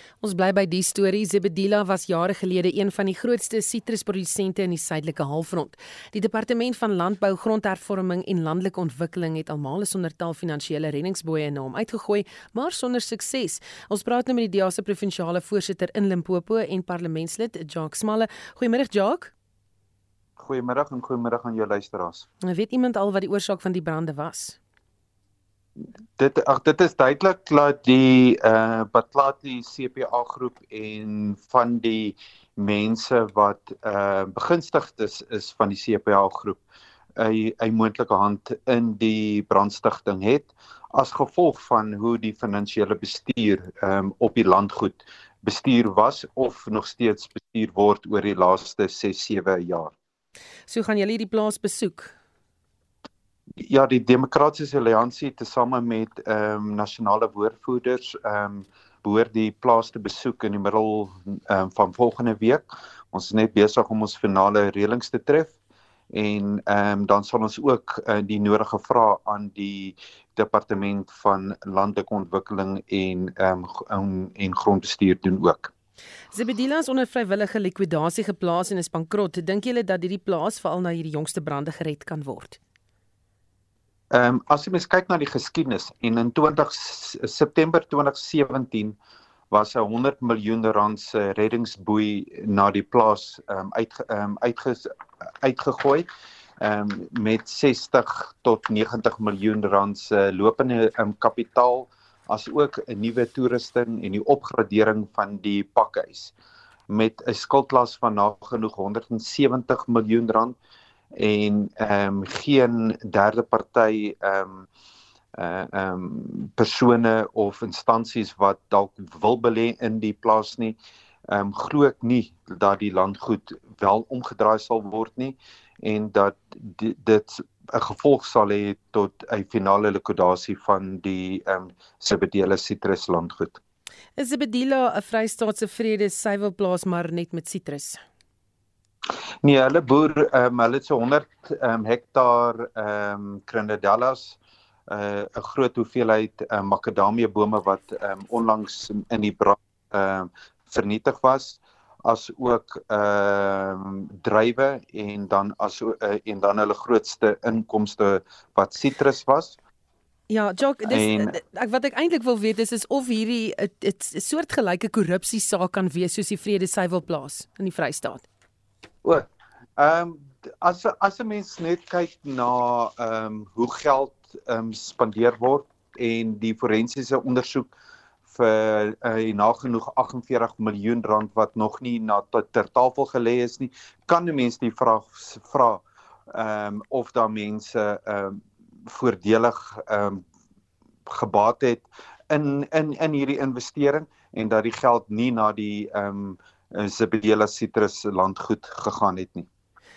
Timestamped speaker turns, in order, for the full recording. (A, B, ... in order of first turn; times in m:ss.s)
0:00.2-0:19.3 A
0:20.4-0:22.3 B
0:22.4-0:24.6 A
0:26.2-0:36.6 B
0:37.2-0:49.9 B
0:50.7-0:52.1 A
0:53.6-1:05.5 B
1:06.1-1:15.7 B
1:16.3-1:22.6 A
1:24.1-1:29.0 B
1:29.5-1:36.1 B
1:36.6-1:46.3 B
1:46.9-1:50.6 B
1:51.2-1:54.7 B
1:55.4-2:00.8 B
2:01.3-2:13.6 B
2:14.2-2:18.0 A
2:19.4-2:24.4 B
2:24.9-2:39.6 B
2:40.3-2:48.2 A
2:40.9-2:41.3 B
2:49.0-2:57.7 B
2:58.3-3:10.2 B
3:11.1-3:19.5 B